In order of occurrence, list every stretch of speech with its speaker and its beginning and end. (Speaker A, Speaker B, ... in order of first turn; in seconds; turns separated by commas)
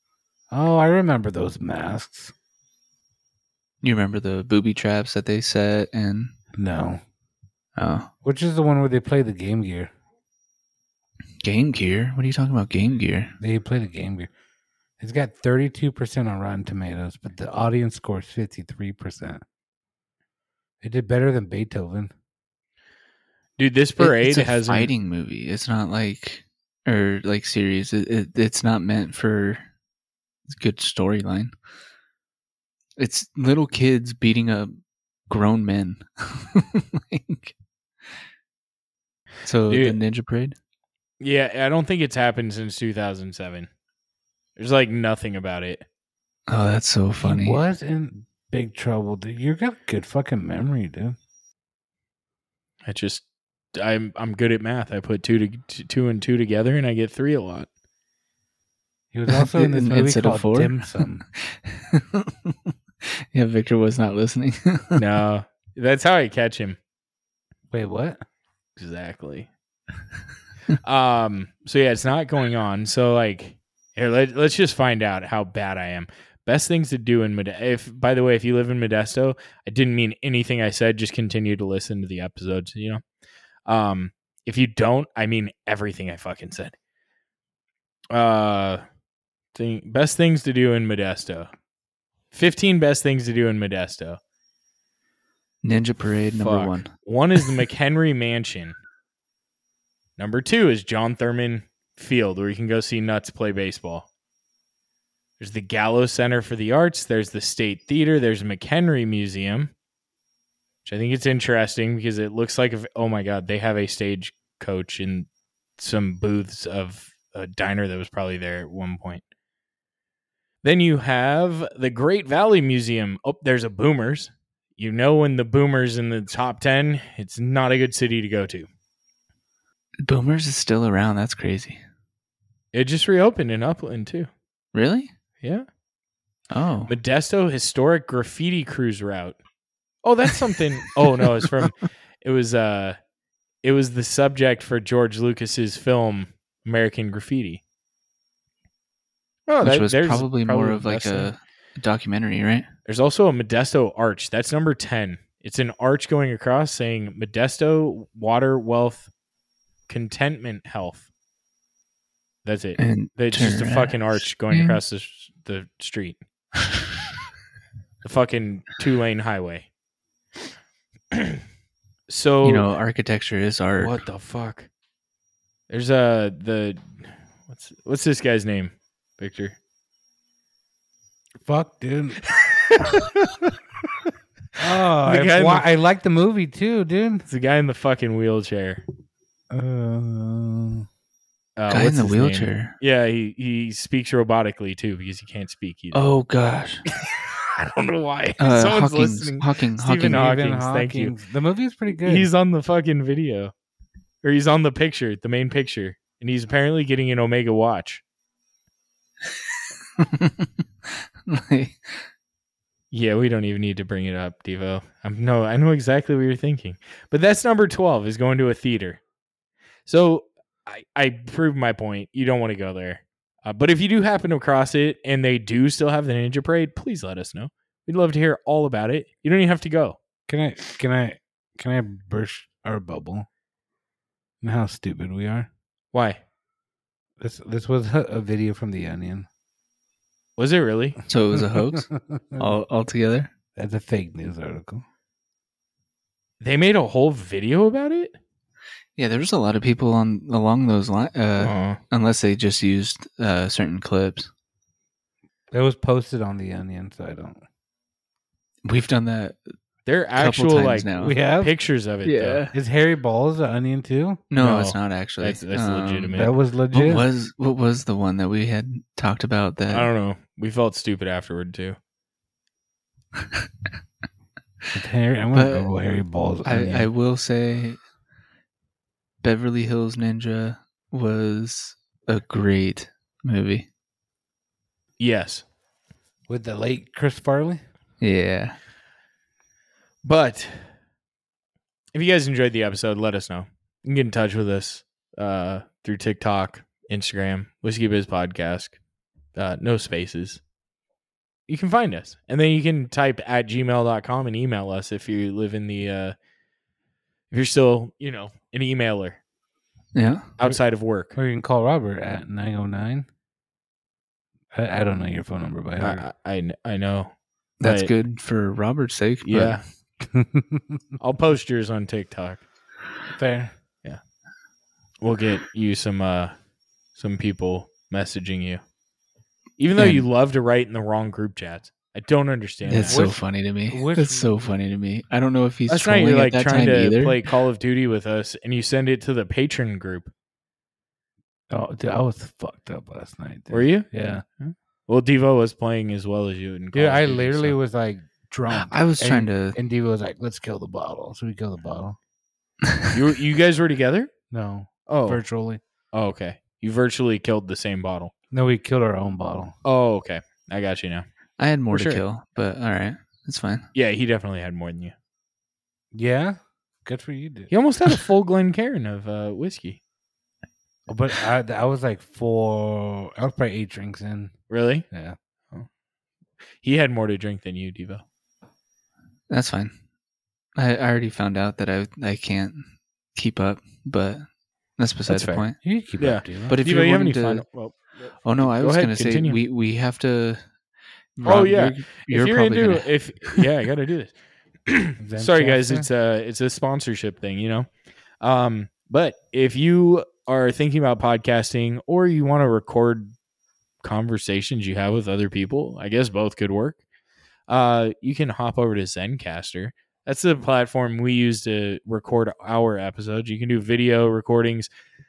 Speaker A: 0.5-2.3, Speaker B: 3.8-6.3, Speaker A: 6.5-7.0, Speaker B: 7.8-8.1, Speaker A: 8.2-9.9, Speaker B: 11.4-13.3, Speaker A: 13.4-14.3, Speaker A: 15.0-19.4, Speaker A: 20.8-22.1, Speaker C: 23.6-24.9, Speaker B: 24.0-29.6, Speaker B: 30.5-31.5, Speaker B: 33.0-34.7, Speaker B: 35.3-37.5, Speaker B: 39.4-40.5, Speaker C: 39.7-40.0, Speaker C: 41.2-43.7, Speaker C: 44.6-45.9, Speaker B: 46.5-47.6, Speaker A: 47.2-51.1, Speaker C: 52.8-53.2, Speaker C: 53.7-57.7, Speaker A: 59.1-61.2, Speaker B: 59.3-60.9, Speaker B: 61.4-65.0, Speaker C: 65.0-66.8, Speaker A: 67.7-68.2, Speaker C: 68.8-69.5, Speaker C: 70.8-83.0, Speaker C: 83.7-86.7, Speaker C: 88.1-88.8, Speaker C: 89.5-91.5, Speaker C: 92.3-94.2, Speaker B: 95.6-96.9, Speaker C: 96.3-98.8, Speaker C: 100.2-104.0, Speaker C: 105.4-109.7, Speaker C: 110.8-119.2, Speaker C: 120.6-128.7, Speaker B: 130.0-131.8, Speaker C: 132.7-134.3, Speaker B: 134.7-135.1, Speaker B: 136.5-136.9, Speaker C: 136.9-139.4, Speaker C: 140.0-143.0, Speaker B: 141.2-141.7, Speaker C: 143.6-147.6, Speaker C: 149.5-151.3, Speaker B: 149.6-152.7, Speaker C: 152.9-159.1, Speaker C: 159.9-161.1, Speaker C: 162.4-166.2, Speaker B: 162.8-164.8, Speaker C: 168.0-169.7, Speaker C: 171.1-171.4, Speaker C: 172.1-172.7, Speaker B: 172.4-174.0, Speaker C: 173.8-174.7, Speaker C: 175.7-179.6, Speaker A: 181.4-182.2, Speaker A: 184.6-187.3, Speaker C: 185.0-185.7, Speaker C: 187.3-188.8, Speaker A: 189.5-190.8, Speaker C: 191.6-196.1, Speaker B: 191.7-192.7, Speaker B: 195.9-196.8, Speaker A: 197.6-198.4, Speaker B: 198.4-200.4, Speaker C: 198.4-201.1, Speaker A: 200.0-202.3, Speaker C: 202.0-203.5, Speaker C: 204.2-208.0, Speaker B: 210.0-210.5, Speaker B: 211.2-211.8, Speaker C: 212.9-219.0, Speaker C: 219.8-230.0, Speaker A: 230.3-233.3, Speaker A: 234.4-235.5, Speaker C: 235.9-236.2, Speaker A: 237.2-239.3, Speaker C: 240.4-241.0, Speaker B: 241.1-243.3, Speaker A: 242.1-242.4, Speaker A: 243.6-244.8, Speaker C: 246.4-248.2, Speaker B: 249.0-254.3, Speaker C: 251.4-251.8, Speaker A: 255.5-257.4, Speaker B: 258.6-259.4, Speaker C: 259.9-262.4, Speaker B: 260.1-261.2, Speaker A: 261.0-261.5, Speaker B: 262.0-262.5, Speaker A: 262.5-264.2, Speaker B: 264.3-269.9, Speaker C: 264.4-266.3, Speaker A: 266.1-267.0, Speaker C: 269.7-271.8, Speaker A: 274.7-276.9, Speaker B: 275.3-275.7, Speaker B: 276.4-277.8, Speaker B: 279.2-283.7, Speaker C: 285.0-285.4, Speaker A: 286.3-287.6, Speaker B: 288.0-288.6, Speaker C: 290.0-290.7, Speaker C: 291.9-298.8, Speaker C: 299.3-300.4, Speaker C: 301.5-306.1, Speaker C: 307.3-309.2, Speaker B: 309.9-310.3, Speaker C: 310.4-311.1, Speaker A: 311.1-313.1, Speaker A: 314.5-316.0, Speaker C: 315.8-317.9, Speaker B: 317.6-319.6, Speaker C: 319.2-319.6, Speaker A: 320.1-320.6, Speaker C: 321.0-322.4, Speaker A: 323.1-323.5, Speaker C: 325.0-326.3, Speaker C: 326.9-328.6, Speaker C: 329.6-333.1, Speaker B: 329.8-330.1, Speaker B: 332.6-337.3, Speaker A: 332.9-334.3, Speaker C: 335.7-340.1, Speaker A: 341.5-344.2, Speaker C: 343.5-347.6, Speaker A: 346.7-352.0, Speaker B: 348.5-349.6, Speaker C: 352.9-354.1, Speaker A: 354.3-355.6, Speaker C: 354.9-355.2, Speaker C: 355.9-358.1, Speaker A: 358.3-359.5, Speaker C: 359.6-361.0, Speaker B: 361.4-363.6, Speaker C: 361.7-362.0, Speaker C: 363.7-364.9, Speaker A: 365.9-367.5, Speaker C: 367.5-369.8, Speaker A: 370.9-374.3, Speaker C: 374.5-374.9, Speaker A: 374.9-375.1, Speaker C: 376.6-378.0, Speaker B: 379.3-379.7, Speaker B: 380.6-384.2, Speaker B: 384.8-385.6, Speaker C: 385.1-385.4, Speaker A: 385.6-386.6, Speaker C: 386.0-387.8, Speaker B: 386.5-387.4, Speaker B: 388.2-390.4, Speaker C: 388.4-389.4, Speaker B: 391.2-393.4, Speaker C: 391.2-394.1, Speaker C: 394.6-397.7, Speaker A: 395.0-395.9, Speaker C: 398.2-403.1, Speaker C: 403.8-406.8, Speaker C: 407.5-414.7